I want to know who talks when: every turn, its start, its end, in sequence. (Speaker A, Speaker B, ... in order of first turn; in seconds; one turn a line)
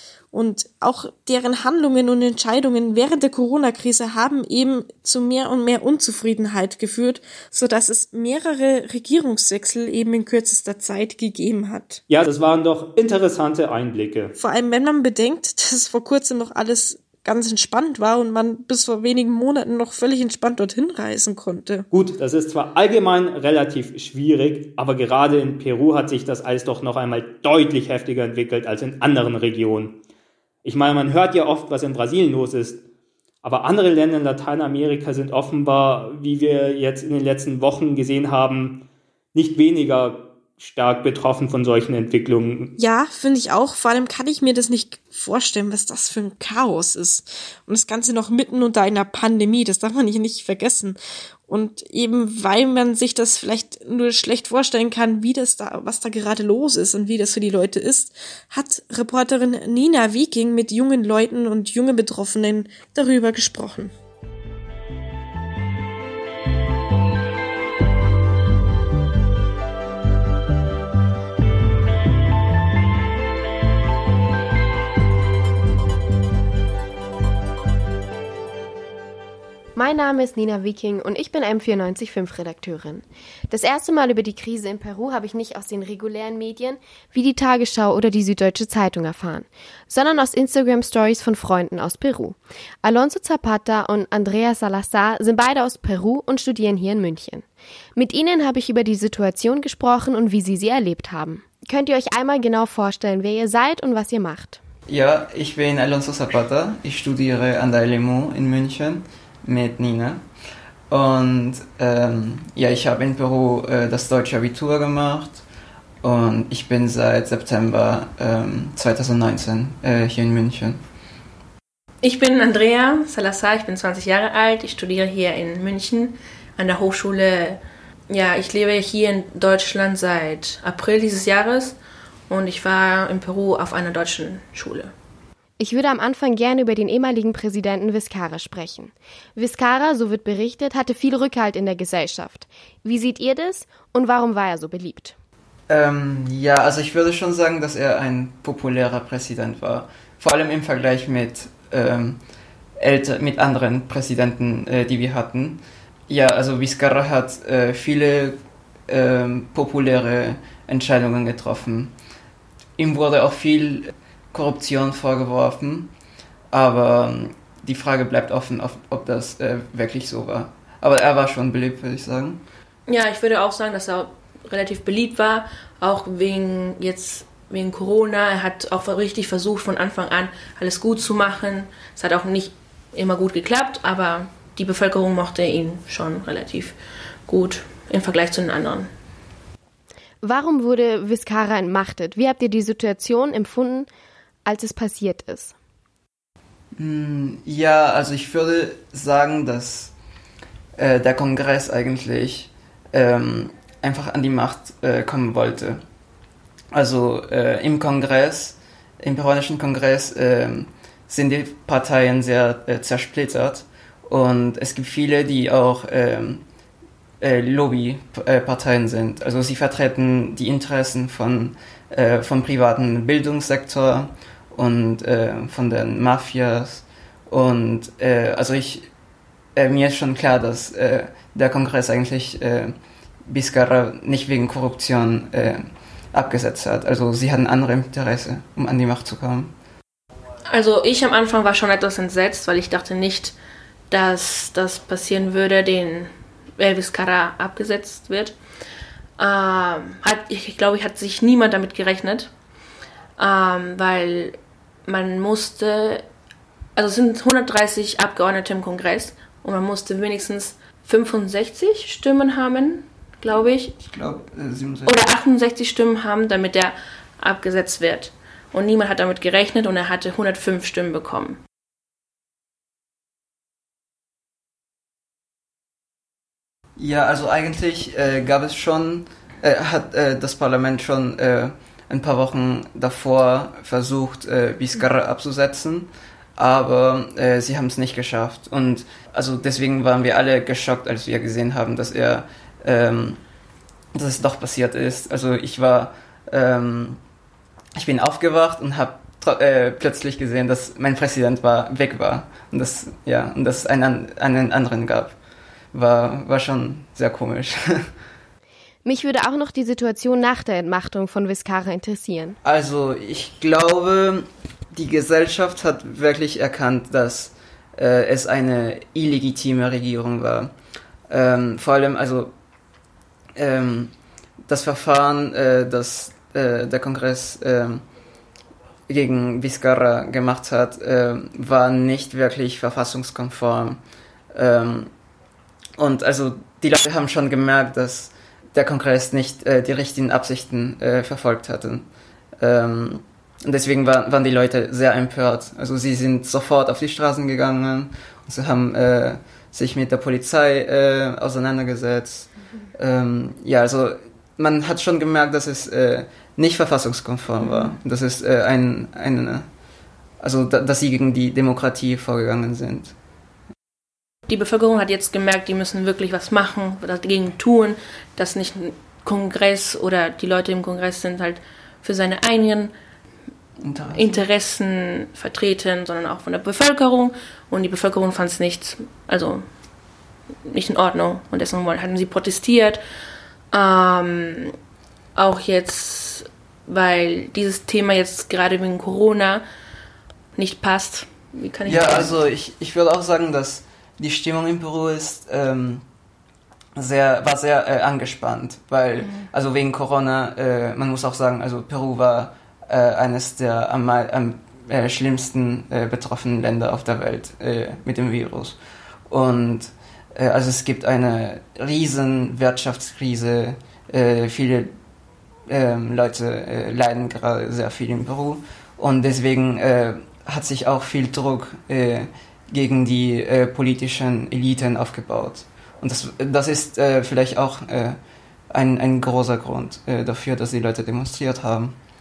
Speaker A: 0.3-12.0
Speaker B: 12.1-14.3
Speaker A: 14.4-21.9
Speaker B: 21.9-30.0
Speaker B: 30.6-32.8
Speaker B: 33.4-42.7
Speaker A: 42.8-63.9
Speaker C: 79.8-104.6
Speaker D: 104.9-110.2
Speaker D: 110.9-115.4
Speaker D: 116.0-120.8
Speaker E: 122.0-131.8
Speaker E: 132.3-134.9
Speaker C: 135.6-145.2
Speaker D: 145.7-152.2
Speaker D: 152.8-158.4
Speaker D: 158.9-161.9
Speaker D: 162.8-165.9
Speaker D: 166.5-172.4
Speaker E: 172.9-186.8
Speaker E: 187.3-188.9
Speaker C: 190.2-193.9
Speaker C: 194.4-195.6
Speaker D: 196.8-199.9
Speaker D: 200.8-205.8
Speaker D: 206.7-216.4
Speaker D: 217.2-228.9
Speaker D: 229.6-232.8
Speaker D: 233.3-239.5
Speaker E: 240.5-243.3
Speaker E: 243.9-248.4
Speaker E: 249.2-252.3
Speaker E: 253.2-256.0
Speaker E: 256.8-263.8
Speaker D: 263.8-265.0
Speaker E: 264.9-271.4
Speaker D: 276.8-293.2
Speaker D: 293.9-297.0
Speaker D: 297.8-305.1
Speaker D: 305.7-307.9
Speaker C: 308.9-312.4
Speaker D: 312.4-320.5
Speaker D: 321.1-322.3
Speaker D: 323.4-323.9
Speaker D: 324.5-327.8
Speaker D: 328.9-333.8
Speaker D: 334.3-334.9
Speaker D: 335.8-341.9
Speaker D: 342.4-359.5
Speaker E: 357.4-357.7
Speaker D: 360.2-362.9
Speaker E: 364.3-372.7
Speaker D: 373.6-374.2
Speaker E: 373.9-379.5
Speaker E: 380.5-382.8
Speaker E: 383.5-384.6
Speaker E: 385.2-389.4
Speaker E: 390.4-392.1
Speaker D: 391.7-395.8
Speaker D: 396.8-408.6
Speaker D: 409.1-414.7
Speaker D: 415.5-428.0
Speaker D: 428.5-431.8